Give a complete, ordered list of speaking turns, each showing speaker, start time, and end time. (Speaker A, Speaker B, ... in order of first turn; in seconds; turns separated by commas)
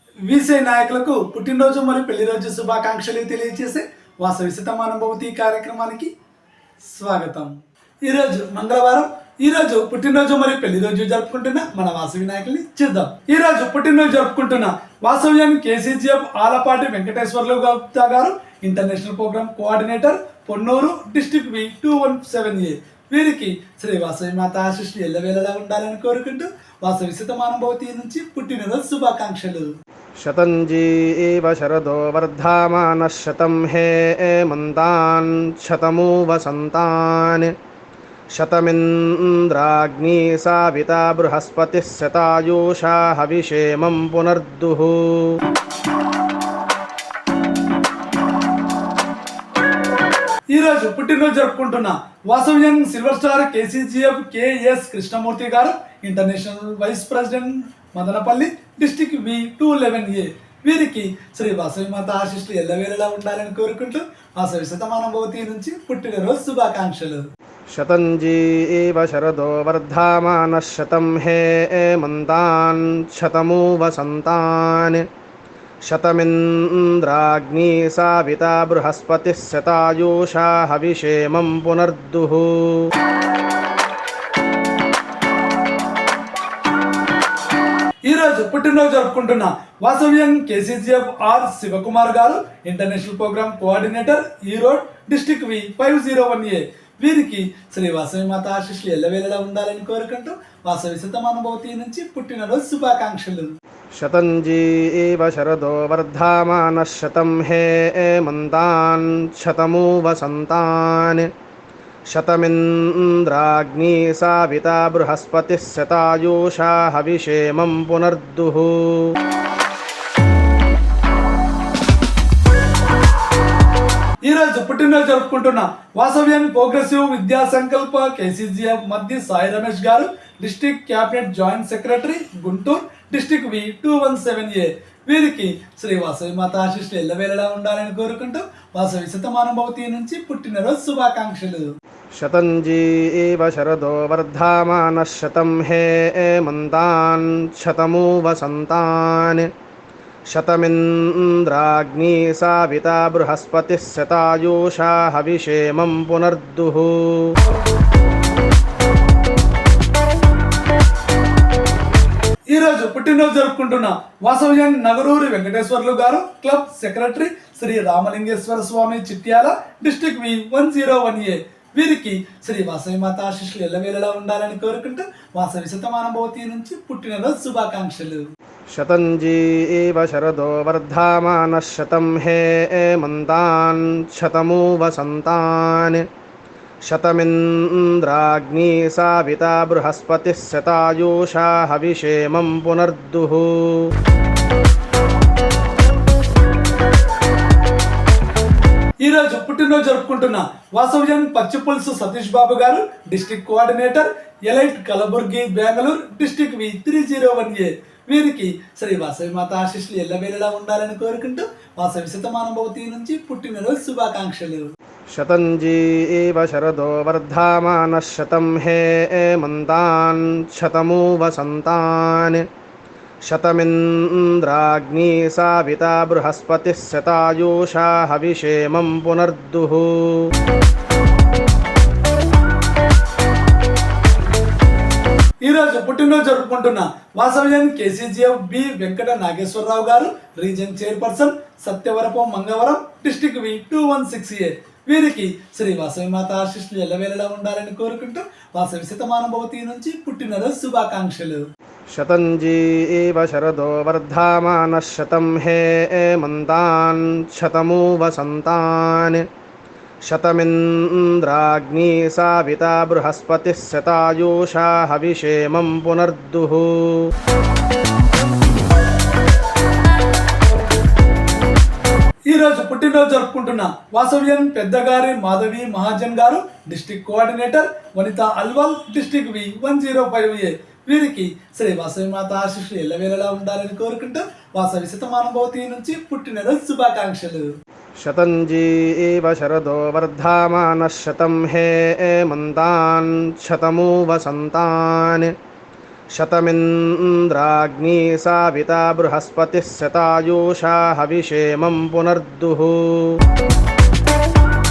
Speaker A: 0.2-6.1, Speaker A: 6.8-29.7, Speaker B: 30.2-37.5, Speaker B: 38.4-45.4, Speaker A: 50.5-67.2, Speaker B: 67.7-75.0, Speaker B: 75.9-82.9, Speaker A: 88.0-103.5, Speaker B: 104.0-111.3, Speaker B: 112.1-119.1, Speaker A: 124.2-141.7, Speaker B: 142.2-149.5, Speaker B: 150.3-157.3, Speaker A: 162.5-178.2, Speaker B: 178.7-186.0, Speaker B: 186.9-193.8, Speaker A: 199.0-214.6, Speaker B: 215.1-222.4, Speaker B: 223.3-230.2, Speaker A: 235.4-251.4, Speaker B: 251.9-259.2, Speaker B: 260.1-267.1, Speaker A: 272.3-287.5, Speaker B: 288.0-295.3, Speaker B: 296.1-303.1